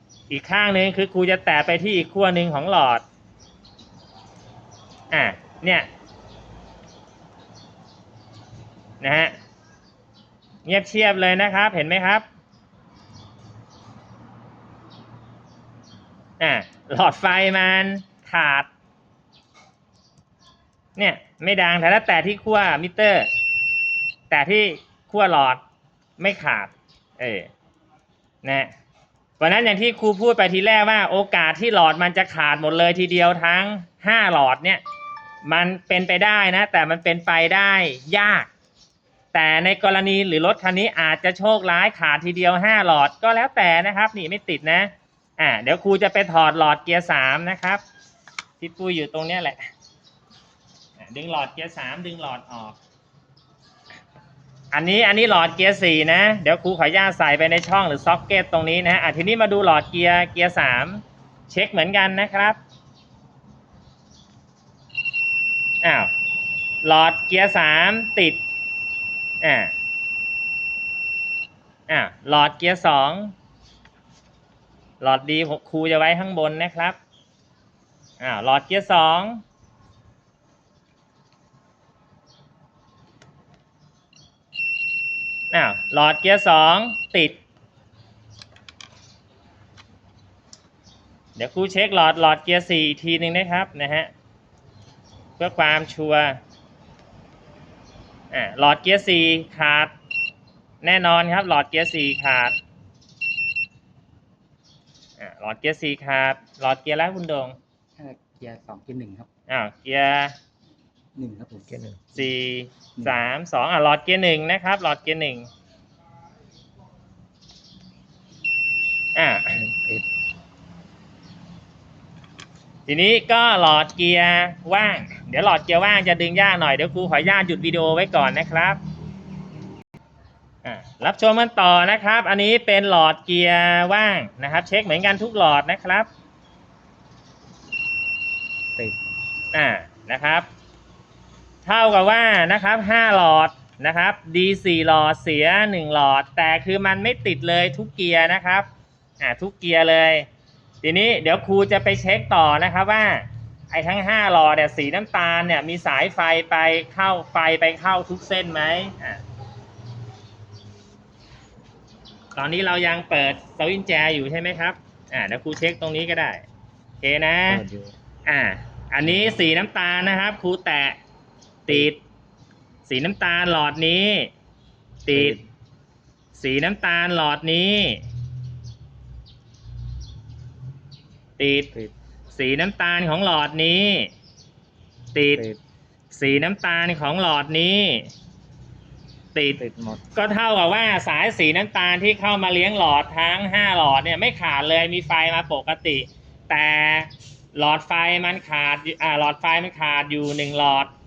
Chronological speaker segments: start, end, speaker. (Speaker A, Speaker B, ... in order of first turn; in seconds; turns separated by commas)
Speaker A: 0.3-3.0, Speaker A: 5.1-5.9, Speaker A: 9.0-9.3, Speaker A: 10.6-12.2, Speaker A: 16.4-18.7, Speaker A: 20.9-23.3, Speaker A: 24.3-25.6, Speaker A: 26.2-27.5, Speaker A: 28.4-28.7, Speaker A: 29.4-34.8, Speaker A: 35.4-38.5, Speaker A: 39.3-47.8, Speaker A: 48.6-49.6, Speaker A: 51.0-52.8, Speaker A: 54.7-62.6, Speaker A: 65.8-66.1, Speaker A: 66.8-68.4, Speaker A: 69.4-69.7, Speaker A: 71.9-73.3, Speaker A: 75.0-77.0, Speaker A: 78.2-79.4, Speaker A: 85.5-87.4, Speaker A: 91.3-94.1, Speaker A: 95.4-96.4, Speaker A: 98.3-99.9, Speaker A: 100.8-102.6, Speaker A: 105.2-107.6, Speaker B: 108.0-109.3, Speaker A: 109.5-110.3, Speaker B: 111.1-111.8, Speaker C: 111.7-112.0, Speaker A: 112.1-115.5, Speaker A: 119.2-119.6, Speaker C: 119.7-120.0, Speaker A: 122.9-128.8, Speaker A: 130.6-136.1, Speaker A: 139.5-140.5, Speaker A: 141.6-148.7, Speaker A: 149.2-150.3, Speaker A: 150.8-159.2, Speaker A: 162.3-166.4, Speaker A: 167.0-167.7, Speaker C: 167.5-167.9, Speaker A: 168.2-171.0, Speaker A: 171.7-172.0, Speaker A: 172.8-174.3, Speaker A: 175.1-175.4, Speaker C: 175.1-175.4, Speaker A: 176.3-178.0, Speaker A: 181.4-181.7, Speaker A: 182.3-184.1, Speaker A: 185.1-185.5, Speaker A: 186.1-188.1, Speaker A: 189.3-189.6, Speaker C: 189.6-190.0, Speaker A: 190.1-200.9